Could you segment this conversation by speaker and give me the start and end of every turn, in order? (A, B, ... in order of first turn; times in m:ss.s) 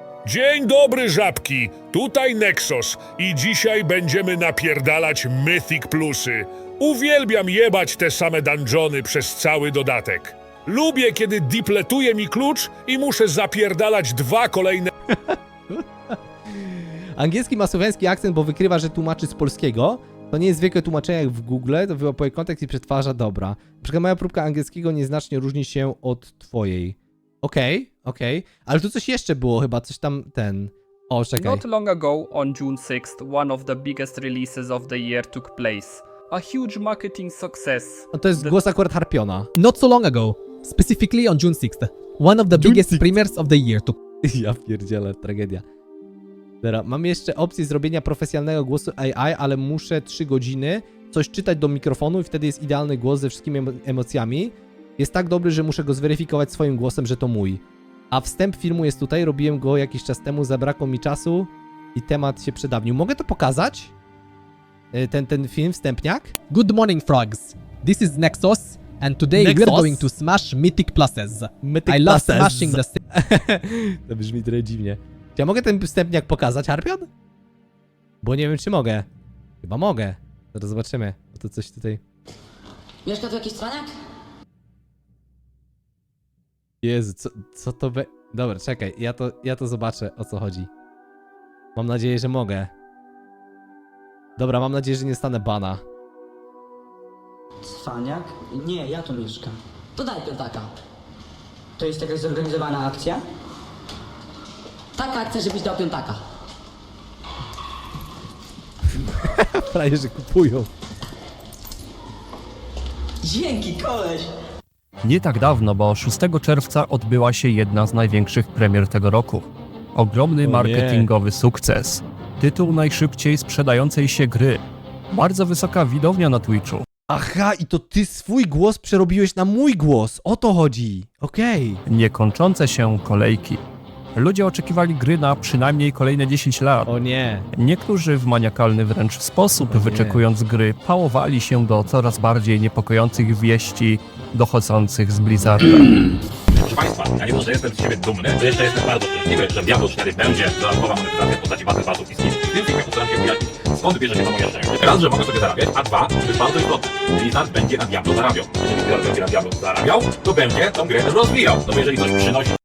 0:00.2-0:14.9 A
0:15.1-0:31.6 B
0:31.4-0:38.6 C
0:38.1-0:39.5 B
0:39.6-0:44.0 D
0:42.5-0:43.1 B
0:44.2-0:45.6 B
0:46.6-1:03.9 B
1:04.9-1:06.3 B
1:06.5-1:13.0 D
1:09.3-1:10.1 B
1:11.6-1:17.1 B
1:18.2-1:19.1 B
1:19.6-1:22.0 B
1:23.0-1:23.9 E
1:26.8-1:30.7 B
1:31.8-1:32.7 B
1:34.4-1:35.8 B
1:37.7-1:40.7 E
1:41.8-1:43.2 E
1:45.0-1:46.2 E
1:49.0-1:50.7 B
1:53.2-1:54.3 E
1:55.0-2:06.8 F
2:00.4-2:01.1 B
2:07.1-2:11.8 B
2:11.9-2:13.6 F
2:14.2-2:16.9 F
2:16.8-2:17.5 B
2:17.5-2:26.0 F
2:19.6-2:20.2 B
2:26.5-2:42.5 G